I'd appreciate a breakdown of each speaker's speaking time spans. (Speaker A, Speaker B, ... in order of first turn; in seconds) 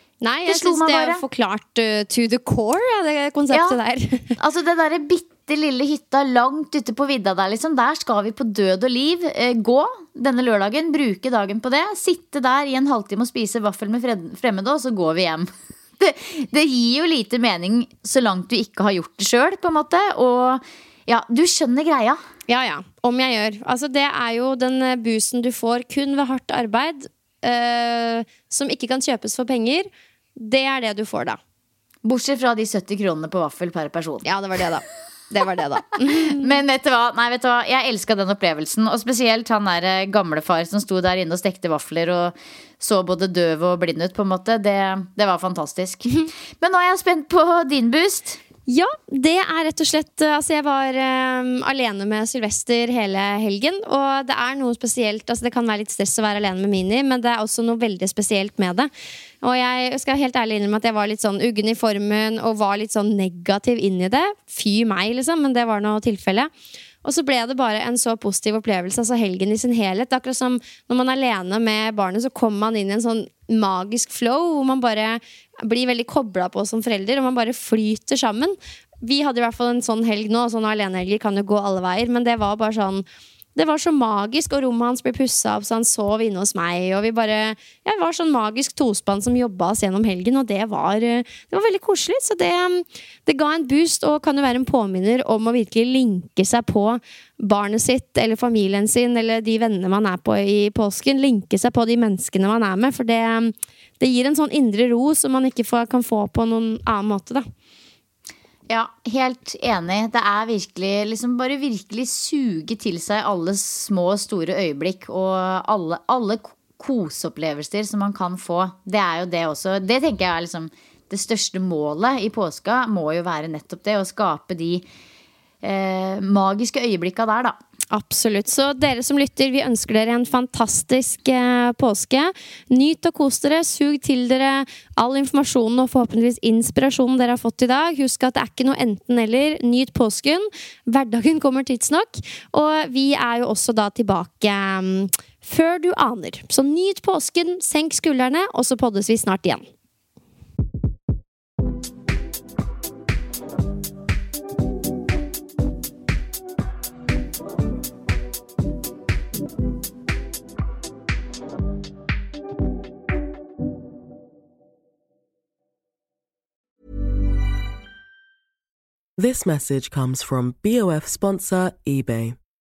Speaker A: 0.2-4.4, 22.5-31.4, 34.2-36.5, 48.7-58.9, 59.4-66.5, 67.0-107.5, 127.9-149.7
Speaker B: 0.5-1.2, 3.5-3.8, 4.4-22.2, 32.0-34.2, 36.2-48.4, 108.7-124.9, 125.6-127.6
Speaker C: 169.2-172.4